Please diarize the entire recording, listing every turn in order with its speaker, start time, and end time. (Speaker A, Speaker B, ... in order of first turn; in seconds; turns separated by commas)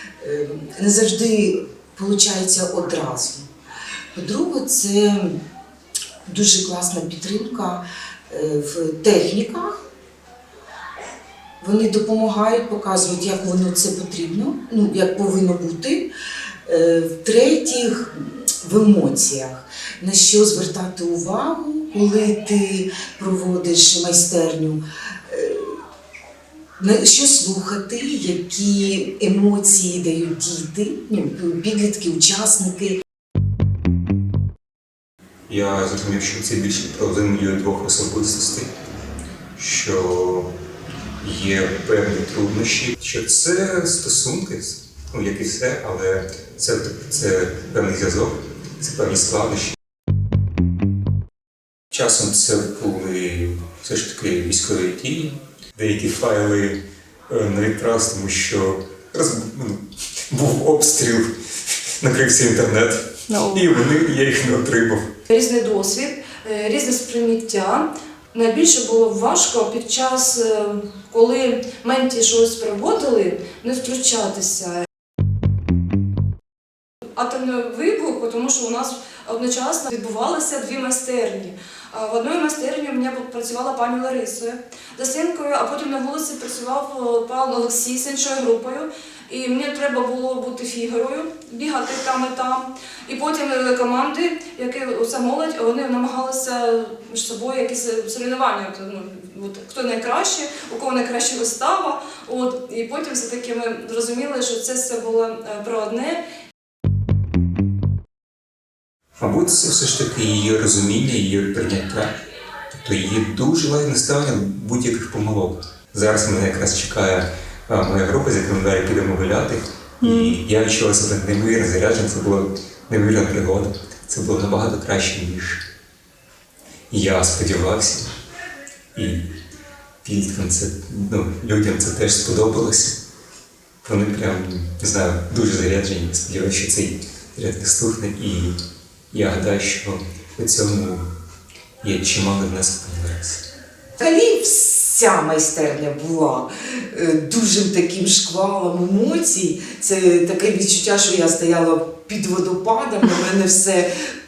Speaker A: 0.2-3.5, Speaker A: 4.1-5.4, Speaker A: 6.3-9.8, Speaker A: 11.6-16.1, Speaker A: 16.6-25.8, Speaker A: 26.8-33.0, Speaker B: 35.5-38.7, Speaker B: 39.5-40.5, Speaker B: 41.2-49.8, Speaker B: 51.9-65.1, Speaker C: 63.3-63.6, Speaker C: 65.3-74.9, Speaker C: 77.1-106.2, Speaker B: 109.2-112.1, Speaker B: 112.7-125.6, Speaker C: 120.0-120.3, Speaker B: 126.9-128.1, Speaker B: 128.9-129.3, Speaker B: 130.0-133.0, Speaker B: 133.8-138.6, Speaker B: 139.1-141.1, Speaker B: 141.8-143.4, Speaker A: 144.0-153.9